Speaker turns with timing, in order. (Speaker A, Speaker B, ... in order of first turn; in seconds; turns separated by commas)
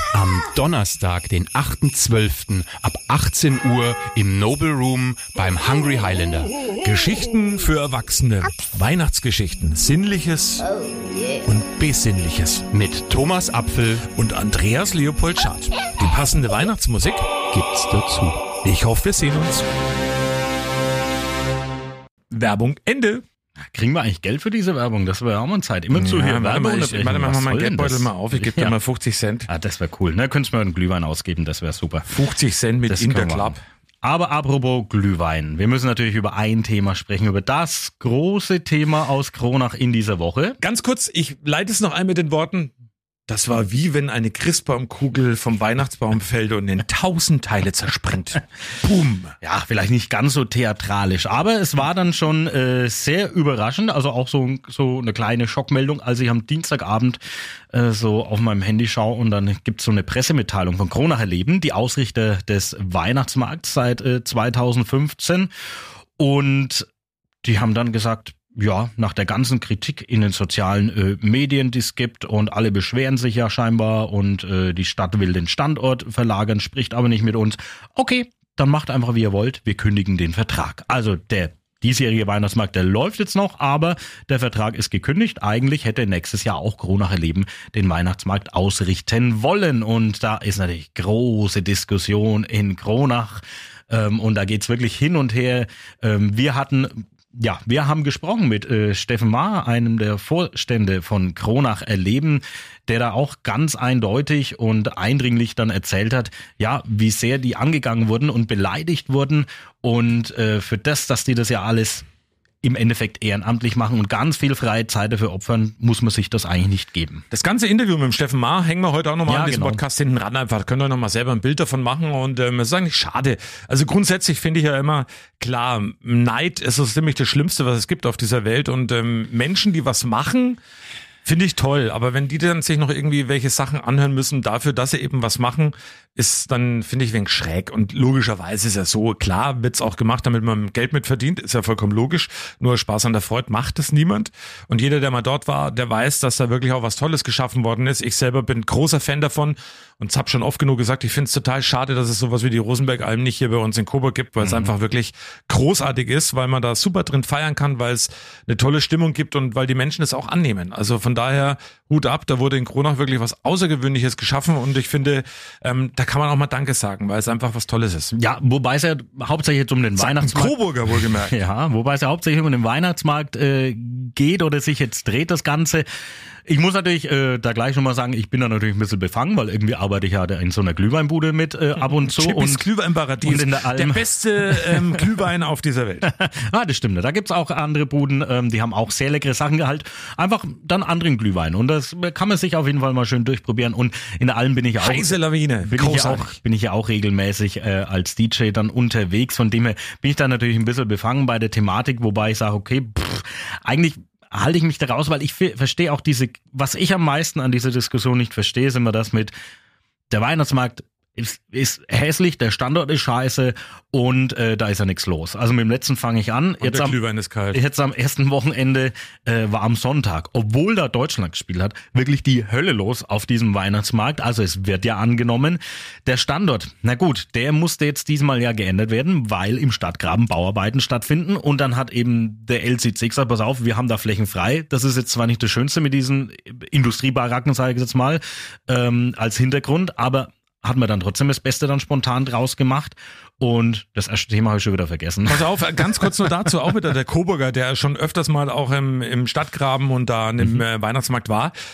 Speaker A: 0.1-6.5, Speaker B: 6.8-10.7, Speaker B: 11.4-12.7, Speaker A: 12.7-14.0, Speaker B: 14.1-17.2, Speaker A: 17.5-18.5, Speaker B: 18.6-19.7, Speaker B: 22.3-23.2, Speaker C: 23.6-28.8, Speaker B: 25.9-29.5, Speaker C: 29.5-32.1, Speaker B: 32.1-33.6, Speaker C: 32.9-40.6, Speaker B: 40.6-42.7, Speaker B: 43.3-49.3, Speaker C: 49.4-57.2, Speaker C: 57.7-65.5, Speaker C: 66.2-66.9, Speaker C: 67.4-112.0, Speaker C: 112.6-117.2, Speaker B: 117.3-130.6, Speaker C: 119.3-119.8, Speaker B: 131.2-168.1, Speaker C: 154.4-154.7, Speaker C: 168.1-170.6, Speaker B: 170.0-171.4, Speaker C: 171.2-175.8, Speaker C: 176.4-182.6, Speaker B: 181.8-186.1, Speaker C: 183.2-184.9, Speaker C: 186.0-209.3, Speaker B: 194.8-196.4, Speaker C: 210.1-217.0, Speaker B: 216.6-217.6, Speaker C: 217.5-246.2, Speaker B: 245.3-251.5